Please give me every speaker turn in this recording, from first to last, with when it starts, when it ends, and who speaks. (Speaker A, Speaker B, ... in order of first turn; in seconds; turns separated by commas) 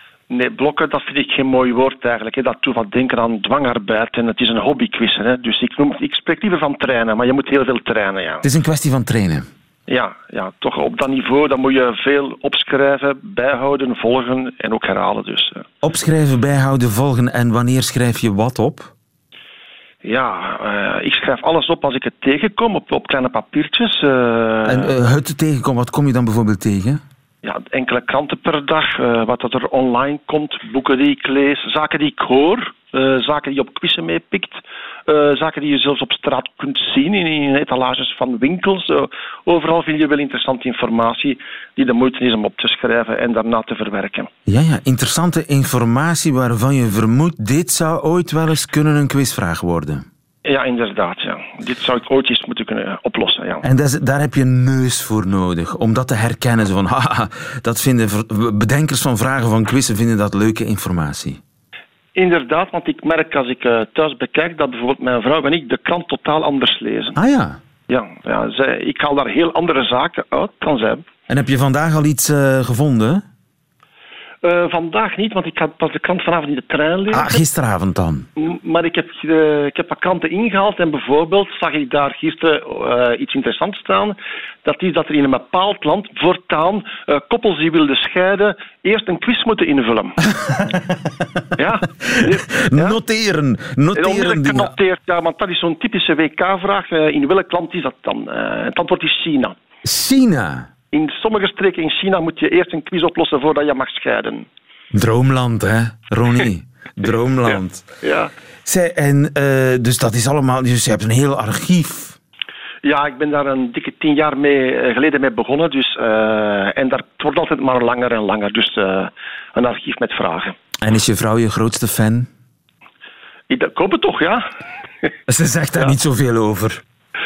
Speaker A: 0.3-8.4, Speaker B: 8.4-9.5, Speaker A: 9.9-15.6, Speaker B: 15.8-18.9, Speaker A: 20.0-24.9, Speaker B: 24.6-27.0, Speaker A: 27.4-44.3, Speaker B: 44.5-50.0, Speaker A: 50.4-53.6, Speaker B: 53.6-61.4, Speaker A: 62.1-67.2, Speaker B: 67.2-67.6, Speaker A: 67.9-71.1, Speaker B: 71.3-73.2, Speaker A: 74.4-77.4, Speaker B: 77.1-78.2, Speaker A: 78.4-90.2, Speaker B: 90.3-91.4, Speaker A: 91.6-93.0, Speaker B: 92.0-94.7, Speaker A: 93.9-99.5, Speaker B: 99.8-100.7, Speaker A: 100.9-104.5, Speaker B: 104.9-107.8, Speaker A: 107.5-108.3, Speaker B: 108.6-112.2, Speaker A: 112.8-120.5, Speaker B: 120.8-122.3, Speaker A: 123.5-124.4, Speaker B: 125.3-126.8